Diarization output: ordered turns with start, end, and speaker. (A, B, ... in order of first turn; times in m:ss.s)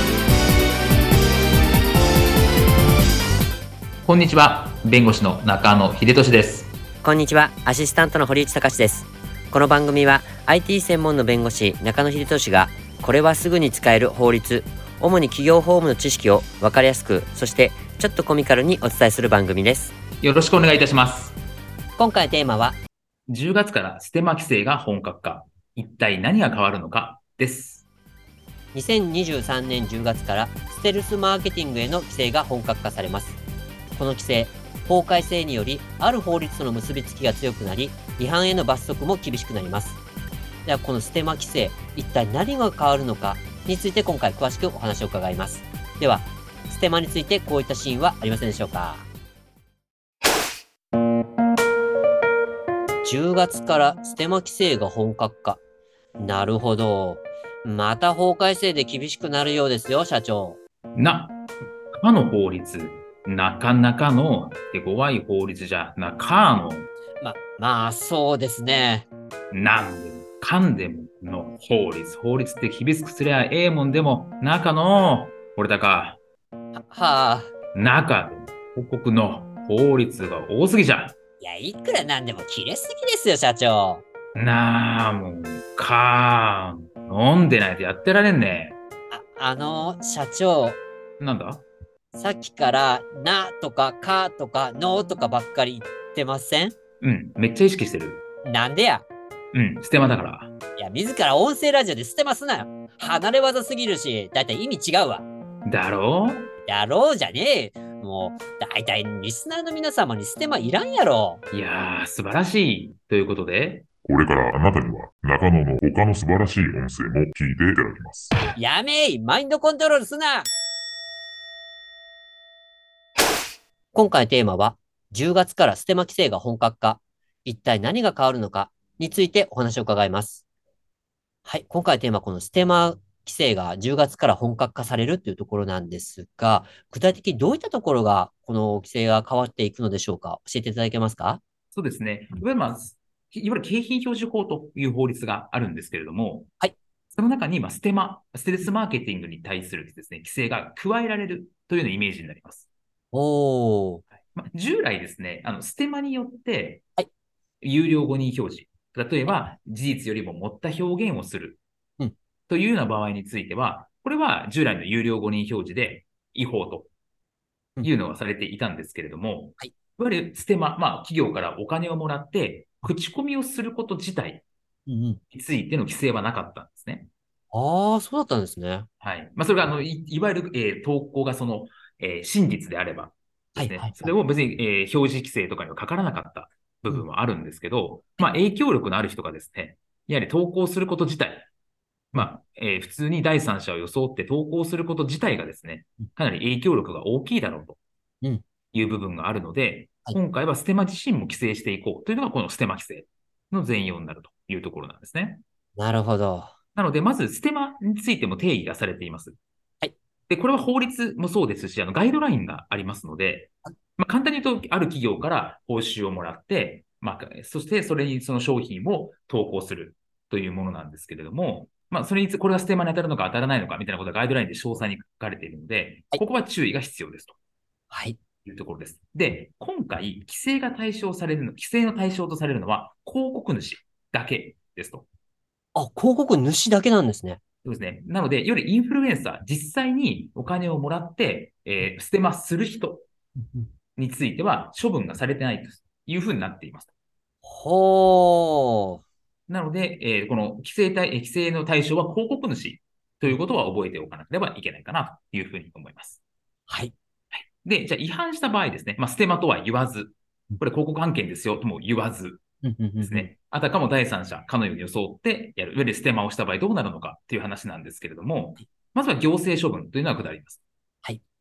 0:04.0-0:06.7 A
0:07.0-0:19.9 B
0:20.2-0:21.4 A
0:22.0-0:22.8 B
0:23.3-0:27.8 A
0:28.7-0:33.4 B
0:33.9-0:40.0 B
0:40.6-0:49.0 B
0:53.0-0:55.6 B
0:56.2-1:00.6 B
1:01.0-1:01.4 A
1:01.9-1:06.9 A
1:07.2-1:09.1 B
1:09.5-1:16.2 A
1:16.7-1:17.5 B
1:17.7-1:21.1 A
1:21.4-1:24.0 B
1:24.3-1:28.8 A
1:29.1-1:30.8 B
1:31.2-1:31.6 A
1:32.1-1:36.7 B
1:37.0-1:38.2 A
1:38.4-1:39.1 B
1:39.5-1:40.5 A
1:40.8-1:45.2 B
1:45.6-1:46.5 A
1:46.6-1:51.4 B
1:51.5-1:53.9 A
1:54.0-1:58.2 C
1:58.3-2:00.5 B
2:03.9-2:10.4 B
2:11.4-2:21.4 B
2:21.7-2:26.5 A
2:27.1-2:32.7 A
2:33.1-2:34.0 B
2:34.2-2:36.8 A
2:37.6-2:41.6 A
2:42.5-2:46.9 A
2:47.8-2:54.4 A
2:54.9-2:55.2 B
2:55.3-2:57.1 A
2:57.5-2:58.8 B
2:59.0-3:11.5 A
3:03.6-3:04.1 B
3:12.1-3:17.8 A
3:18.7-3:25.4 A
3:25.8-3:26.5 B
3:26.8-3:29.4 A
3:30.3-3:47.4 A
3:47.9-3:48.2 B
3:48.4-3:55.0 A
3:55.7-3:57.4 B
3:57.6-4:03.1 A
4:03.4-4:03.7 B
4:04.0-4:06.9 A
4:07.4-4:09.0 B
4:09.5-4:16.2 A
4:16.7-4:16.9 B
4:17.6-4:22.4 A
4:22.6-4:23.3 B
4:23.0-4:30.6 A